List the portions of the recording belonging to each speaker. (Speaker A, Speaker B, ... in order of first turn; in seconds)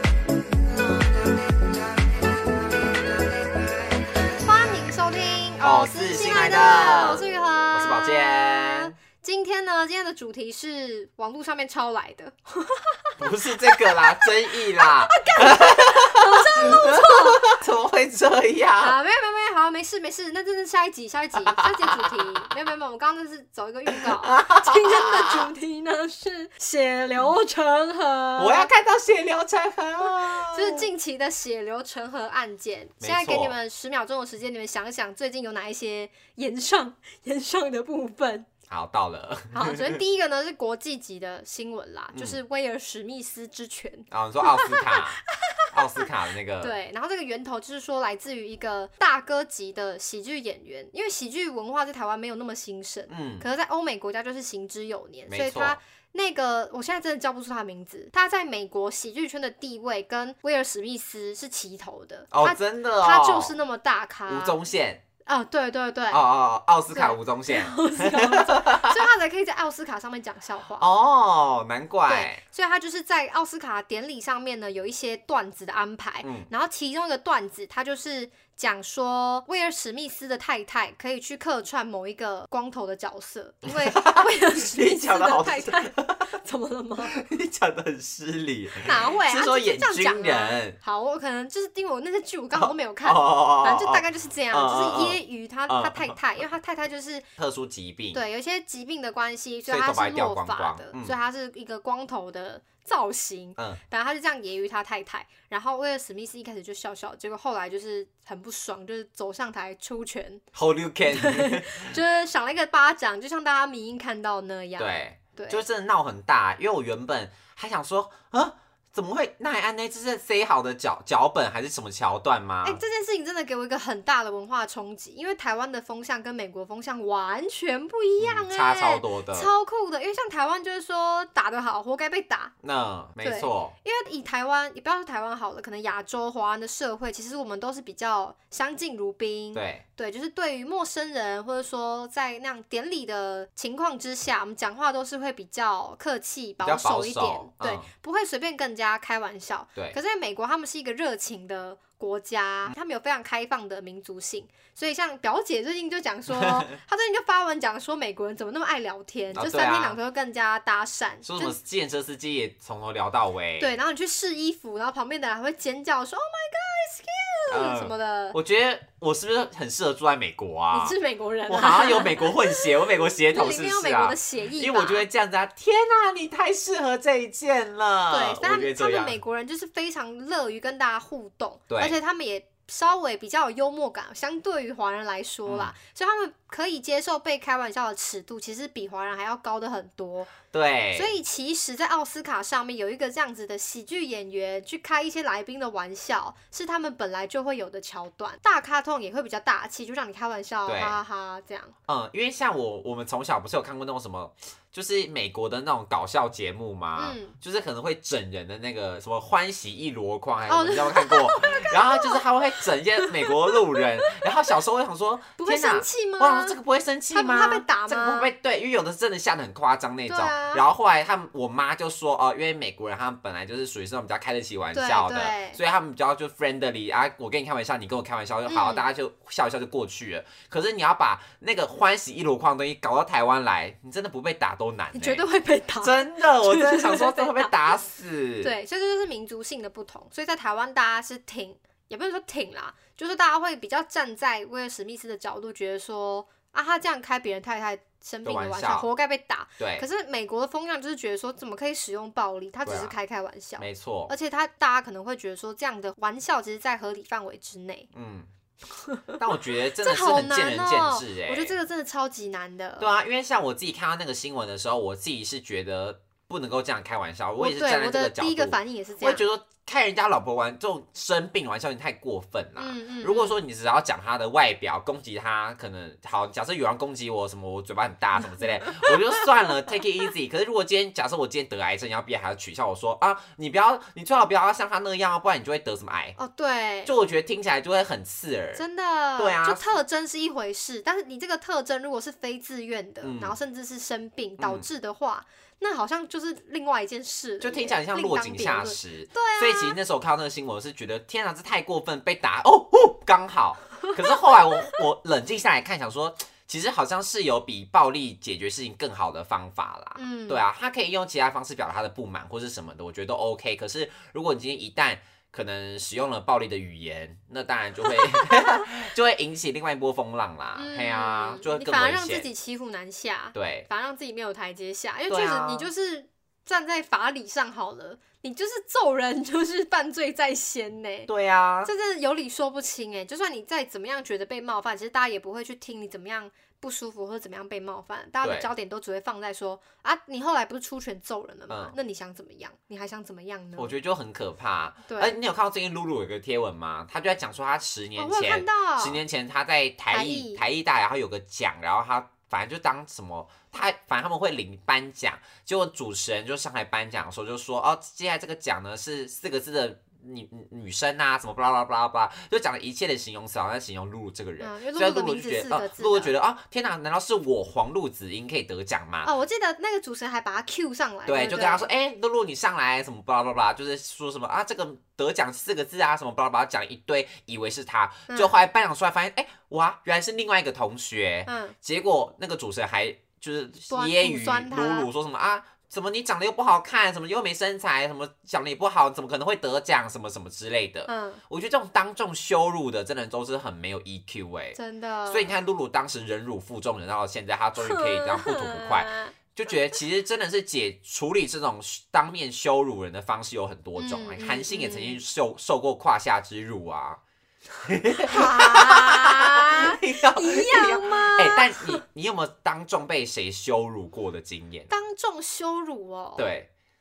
Speaker A: 0.8-1.1, 4.4-13.1, 13.6-17.6, 18.8-28.7, 30.0-38.5, 39.5-64.6, 65.2-66.2, 66.9-70.9, 72.1-87.1, 88.8-97.2, 98.1-110.4, 111.1-115.6, 122.6-132.5, 133.2-161.5, 163.6-168.4, 170.7-175.1, 178.1-190.3, 190.9-201.7, 206.9-207.3, 210.5-212.2, 213.0-213.8, 215.4-216.6, 217.1-218.3, 220.1-220.6, 224.7-225.6, 228.5-228.8, 234.9-237.7, 238.4-257.9, 258.8-259.2, 259.8-262.9, 267.4-269.2, 272.6-273.4, 286.1-286.9, 288.5-299.8, 309.9-310.4, 318.1-318.6, 320.5-331.1, 331.6-343.7, 344.9-345.2, 348.0-349.0, 349.9-350.4, 364.4-366.1, 369.0-371.7, 378.1-378.3, 381.2-381.6, 383.7-384.9, 390.9-391.2, 394.6-395.3, 397.6-399.1, 403.8-405.0, 408.0-411.8, 414.7-416.2
Speaker B: 5.6-8.9, 13.2-18.9, 21.4-22.5, 23.9-25.5, 28.4-30.9, 33.0-33.5, 38.7-40.0, 42.1-42.4, 44.1-46.7, 53.1-53.5, 55.3-55.8, 62.3-63.5, 64.3-65.0, 66.1-69.0, 70.8-72.4, 76.2-76.5, 83.6-86.3, 87.0-90.8, 92.5-96.2, 97.4-98.2, 99.7-101.1, 110.5-112.0, 114.8-122.8, 128.2-129.5, 132.6-133.7, 139.5-139.8, 146.6-147.9, 156.3-156.8, 159.3-160.0, 161.2-163.7, 167.5-170.9, 171.5-179.2, 181.7-182.0, 185.4-185.7, 190.5-191.2, 200.7-201.0, 201.9-235.2, 235.8-238.5, 248.2-248.9, 249.6-249.8, 252.6-252.9, 253.6-254.1, 257.9-258.3, 259.2-261.5, 262.8-286.1, 286.8-288.6, 289.2-289.8, 293.0-293.3, 294.4-294.6, 297.4-322.3, 323.3-323.7, 325.1-325.7, 331.1-331.7, 338.2-338.5, 341.5-341.7, 343.6-369.1, 371.1-407.0, 407.6-414.7, 416.1-416.5